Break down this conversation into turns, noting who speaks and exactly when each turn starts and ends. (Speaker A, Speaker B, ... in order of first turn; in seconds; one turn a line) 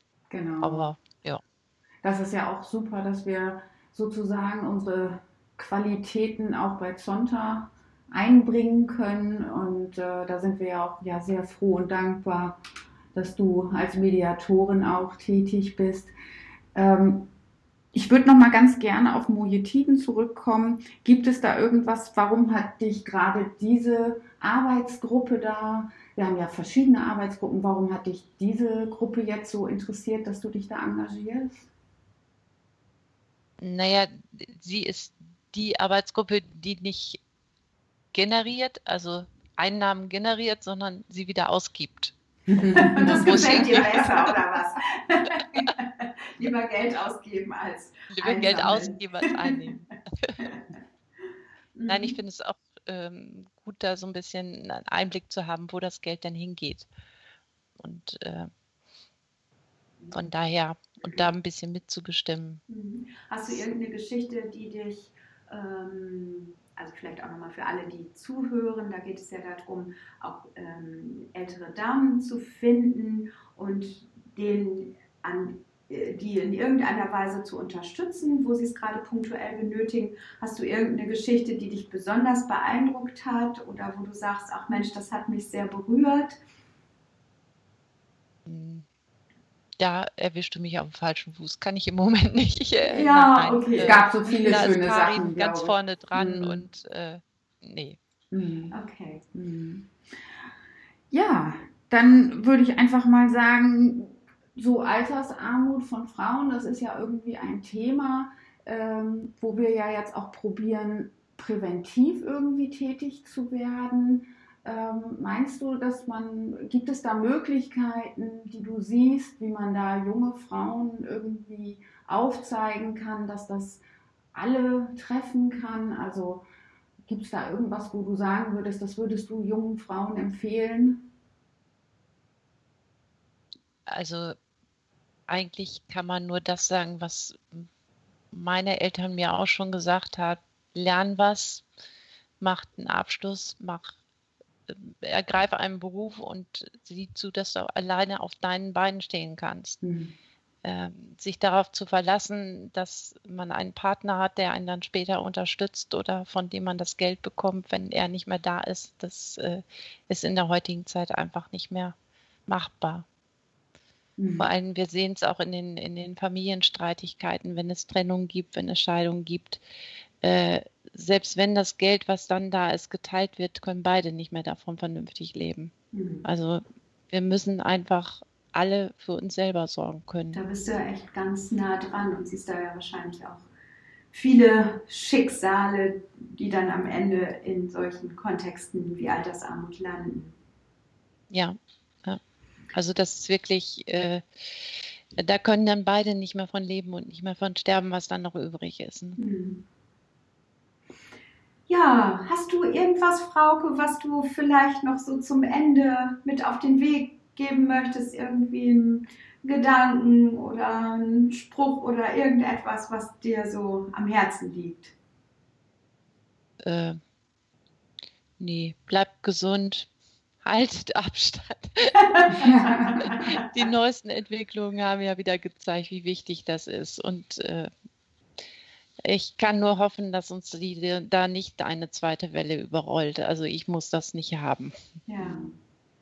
Speaker A: 0.3-0.9
Speaker B: 0.6-1.4
Speaker A: 2.0-12.6
Speaker A: 13.1-16.1
Speaker A: 16.7-17.3
Speaker A: 17.9-31.7
Speaker B: 33.6-37.2
Speaker B: 38.1-42.1
Speaker A: 42.5-43.3
Speaker C: 42.6-49.8
Speaker B: 43.0-44.3
Speaker B: 48.1-50.4
Speaker C: 51.7-52.1
Speaker B: 51.9-56.9
Speaker B: 57.8-58.5
Speaker B: 60.1-62.6
Speaker C: 62.7-86.4
Speaker B: 88.5-88.8
Speaker B: 89.8-98.0
Speaker C: 92.8-94.7
Speaker A: 93.8-96.6
Speaker A: 98.3-98.7
Speaker C: 98.7-99.2
Speaker A: 99.3-99.9
Speaker A: 101.1-123.8
Speaker A: 124.3-126.4
Speaker A: 127.1-131.0
Speaker B: 133.9-134.3
Speaker B: 135.3-137.7
Speaker B: 138.3-141.7
Speaker B: 142.4-143.9
Speaker B: 144.7-149.8
Speaker A: 149.8-150.1
Speaker B: 150.6-161.9
Speaker B: 162.5-163.0
Speaker A: 164.2-164.5
Speaker B: 164.4-169.6
Speaker B: 170.2-175.7
Speaker C: 175.9-176.2
Speaker B: 176.2-180.4
Speaker C: 180.3-183.4
Speaker C: 184.1-190.3
Speaker B: 191.3-192.2
Speaker B: 192.7-199.2
Speaker C: 199.2-199.6
Speaker C: 201.7-214.9
Speaker B: 216.6-217.0
Speaker B: 218.4-219.9
Speaker B: 220.4-222.3
Speaker C: 222.0-223.2
Speaker A: 222.4-222.7
Speaker B: 223.0-227.7
Speaker B: 229.0-234.7
Speaker C: 235.1-235.4
Speaker A: 235.2-235.5